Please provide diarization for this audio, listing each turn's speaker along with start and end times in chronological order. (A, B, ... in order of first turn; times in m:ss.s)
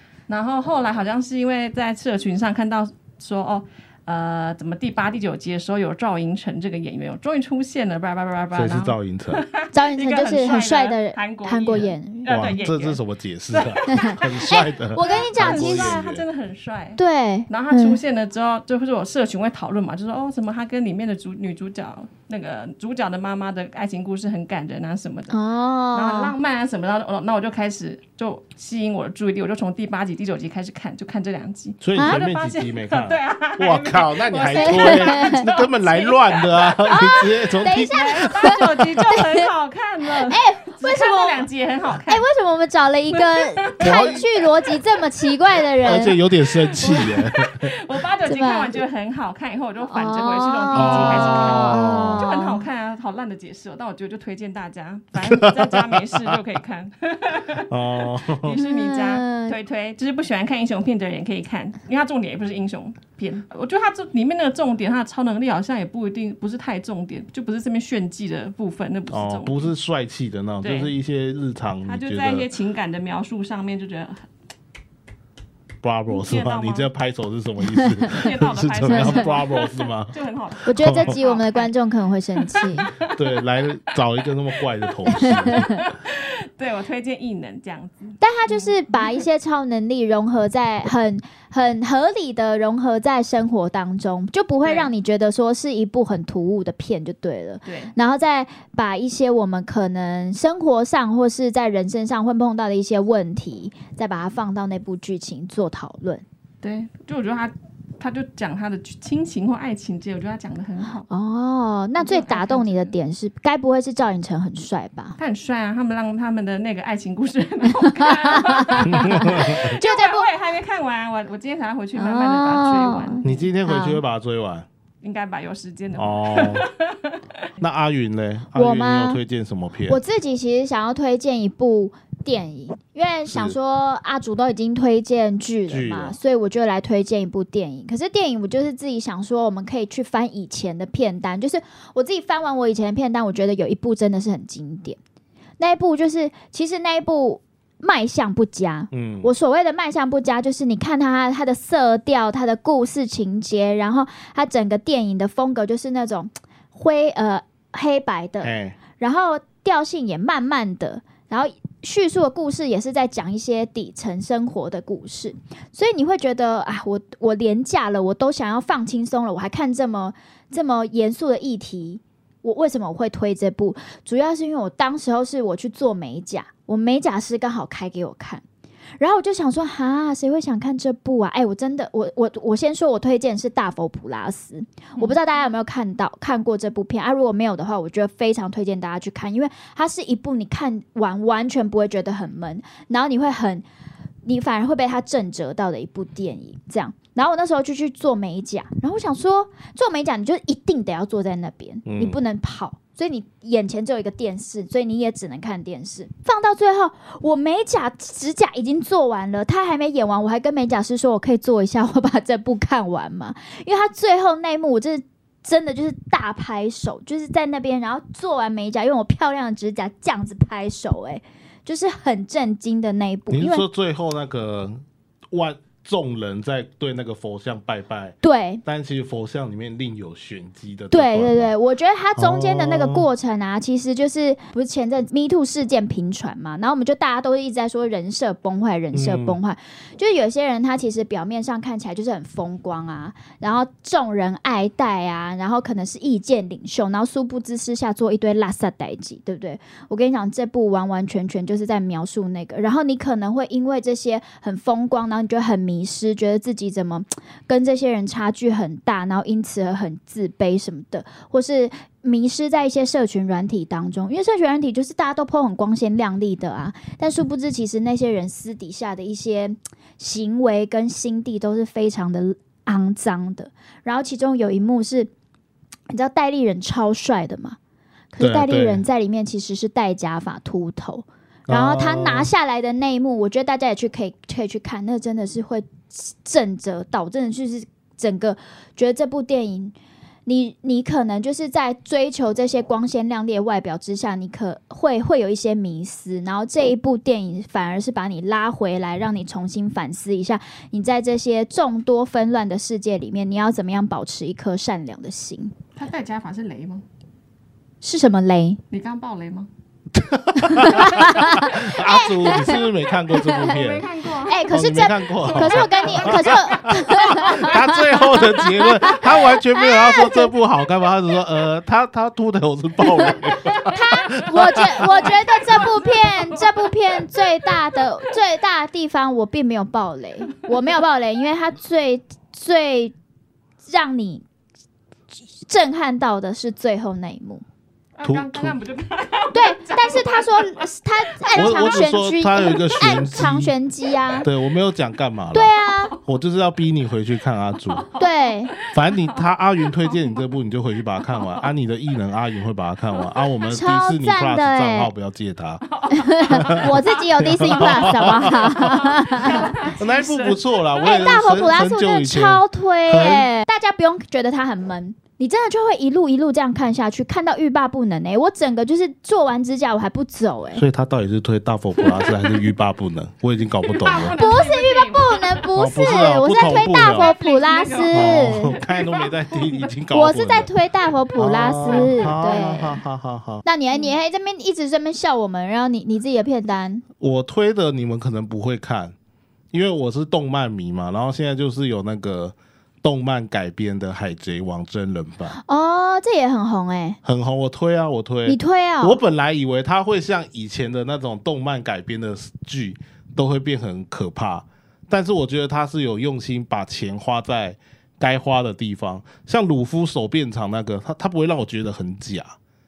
0:00.3-0:25.4 A
0:08.5-0:09.4 B
0:09.7-0:12.3 C
0:12.3-0:16.2 B
0:14.0-0:16.0 C
0:17.0-0:18.0 C
0:25.3-0:26.3 C
0:25.9-0:37.0 A
0:31.8-0:39.2 B
0:34.5-0:35.5 C
0:36.8-0:39.5 C
0:37.8-0:42.2 A
0:40.1-0:41.5 C
0:42.1-0:46.2 C
0:43.2-0:44.8 A
0:43.8-0:44.2 B
0:45.8-0:47.7 B
0:46.6-1:09.7 A
0:48.3-0:48.7 C
0:49.8-0:52.6 C
0:50.7-0:52.2 B
0:55.2-0:56.4 B
0:57.7-0:58.6 B
0:58.5-0:59.5 C
1:09.1-1:12.5 B
1:10.6-1:10.9 A
1:11.8-1:14.3 A
1:15.8-1:20.2 B
1:16.1-1:16.9 A
1:18.1-1:21.7 A
1:18.9-1:19.2 C
1:20.6-1:22.9 C
1:20.8-1:21.2 B
1:22.4-1:23.4 A
1:23.1-1:25.8 B
1:24.9-1:29.3 A
1:25.3-1:25.6 C
1:28.2-1:46.2 C
1:34.6-1:34.9 A
1:37.6-1:38.0 A
1:46.6-1:51.1 A
1:51.1-1:55.2 C
1:52.0-1:52.9 A
1:55.2-2:03.3 A
1:58.7-2:00.3 C
1:58.8-1:59.8 B
2:02.0-2:04.0 C
2:03.2-2:04.7 B
2:05.0-2:07.5 A
2:06.0-2:06.7 B
2:07.6-2:10.0 B
2:08.5-2:09.2 C
2:09.8-2:25.0 C
2:13.3-2:13.6 B
2:15.7-2:16.2 B
2:25.6-2:58.4 C
2:28.9-2:29.3 B
2:38.4-2:38.8 B
2:59.0-3:13.6 C
3:14.2-3:43.6 C
3:21.8-3:22.2 B
3:43.3-3:51.5 B
3:48.2-3:48.6 C
3:50.9-4:35.1 C
3:52.2-3:53.1 B
3:58.9-3:59.4 B
4:35.9-4:37.6 C
4:38.1-4:49.8 C
4:38.2-4:38.8 B
4:41.5-4:42.3 B
4:50.2-5:05.5 C
5:05.8-5:06.8 A
5:07.8-5:08.6 C
5:08.7-5:09.5 A
5:09.9-5:13.9 B
5:10.4-5:12.6 C
5:13.2-5:17.6 A
5:14.2-5:20.3 C
5:14.5-5:25.6 B
5:23.6-5:32.9 C
5:24.9-5:27.2 A
5:33.6-5:34.2 C
5:35.4-5:37.4 C
5:38.0-5:41.8 A
5:38.0-5:38.6 B
5:39.3-5:44.3 C
5:41.4-5:43.5 B
5:44.2-5:45.5 B
5:45.3-5:46.0 C
5:46.0-5:47.9 B
5:47.6-5:50.2 A
5:48.0-5:48.5 C
5:48.7-5:55.7 B
5:51.0-5:51.5 A
5:52.9-5:53.5 A
5:53.5-5:54.9 C
5:55.7-6:01.0 A
5:56.0-5:59.6 C
5:56.3-5:58.8 B
5:59.6-6:03.3 B
6:00.8-6:10.6 C
6:10.5-6:14.1 B
6:11.8-6:12.5 A
6:13.6-6:15.5 A
6:13.9-6:18.6 C
6:15.6-6:17.1 B
6:16.9-6:19.8 A
6:17.9-6:20.5 B
6:19.9-6:22.8 C
6:21.2-6:23.4 B
6:21.4-6:22.4 A
6:23.4-6:26.8 C
6:23.7-6:24.0 A
6:27.0-6:28.9 B
6:29.5-6:35.4 B
6:35.3-6:37.0 C
6:37.0-6:52.4 B
6:38.2-6:39.0 C